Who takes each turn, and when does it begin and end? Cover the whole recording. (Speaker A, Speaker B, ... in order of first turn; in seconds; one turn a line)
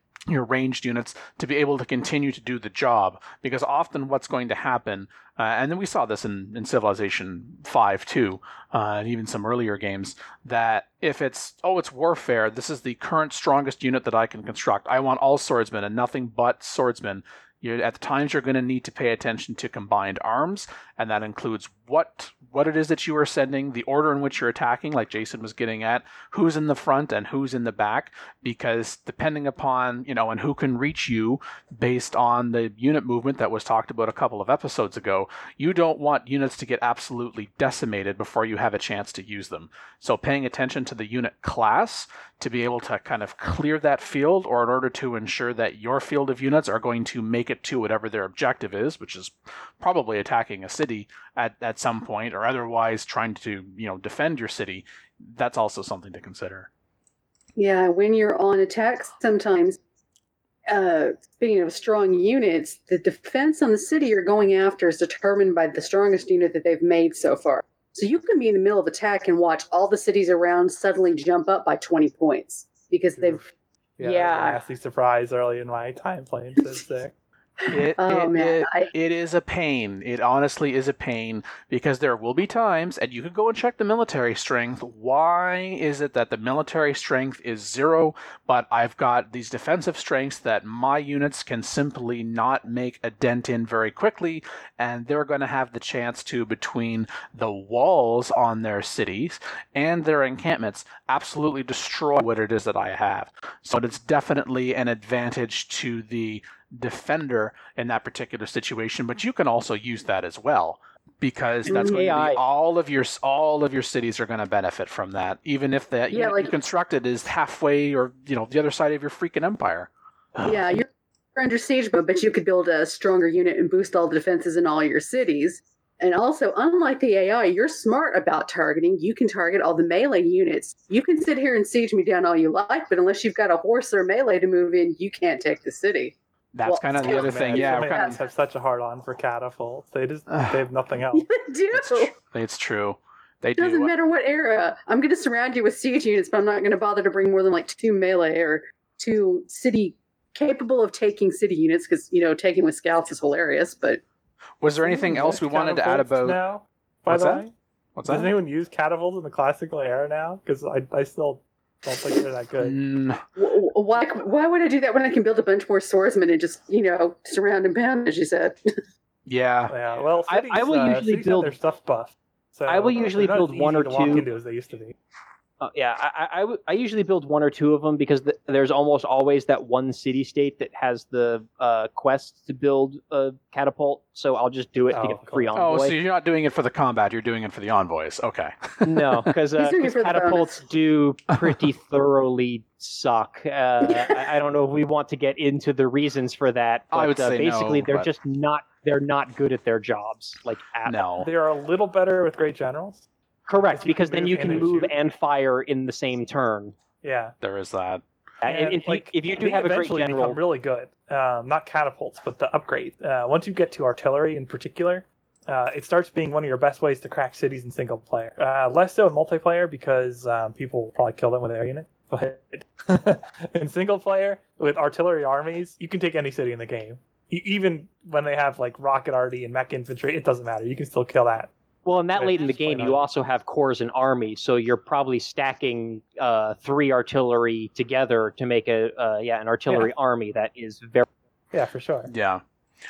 Speaker A: 0.3-56.7
Speaker B: 57.5-59.8
Speaker B: 60.7-73.4
Speaker C: 73.2-77.1
Speaker B: 74.0-74.6
Speaker A: 77.7-120.8
Speaker B: 77.7-78.9
Speaker B: 111.7-112.0
Speaker D: 111.7-112.4
Speaker B: 116.1-116.5
Speaker B: 120.4-138.2
Speaker A: 136.5-138.2
Speaker C: 137.0-141.3
Speaker B: 141.1-142.1
Speaker A: 141.7-143.9
Speaker B: 143.6-154.0
Speaker A: 154.6-156.4
Speaker C: 154.8-157.5
Speaker A: 157.1-157.4
Speaker A: 157.9-158.3
Speaker C: 158.1-162.8
Speaker A: 162.6-163.2
Speaker B: 163.4-168.6
Speaker A: 169.3-169.7
Speaker C: 169.7-174.9
Speaker D: 170.3-171.5
Speaker D: 172.7-174.2
Speaker D: 175.6-186.0
Speaker C: 184.9-185.6
Speaker A: 185.5-189.2
Speaker D: 188.8-201.0
Speaker B: 189.6-190.6
Speaker B: 193.8-194.2
Speaker A: 196.9-198.1
Speaker A: 200.8-201.3
Speaker C: 201.2-203.0
Speaker D: 203.5-206.7
Speaker C: 203.6-204.9
Speaker C: 207.0-207.3
Speaker A: 207.4-208.0
Speaker D: 208.4-210.4
Speaker C: 208.4-231.5
Speaker D: 231.8-241.1
Speaker C: 232.1-233.1
Speaker C: 241.5-242.1
Speaker A: 242.1-242.4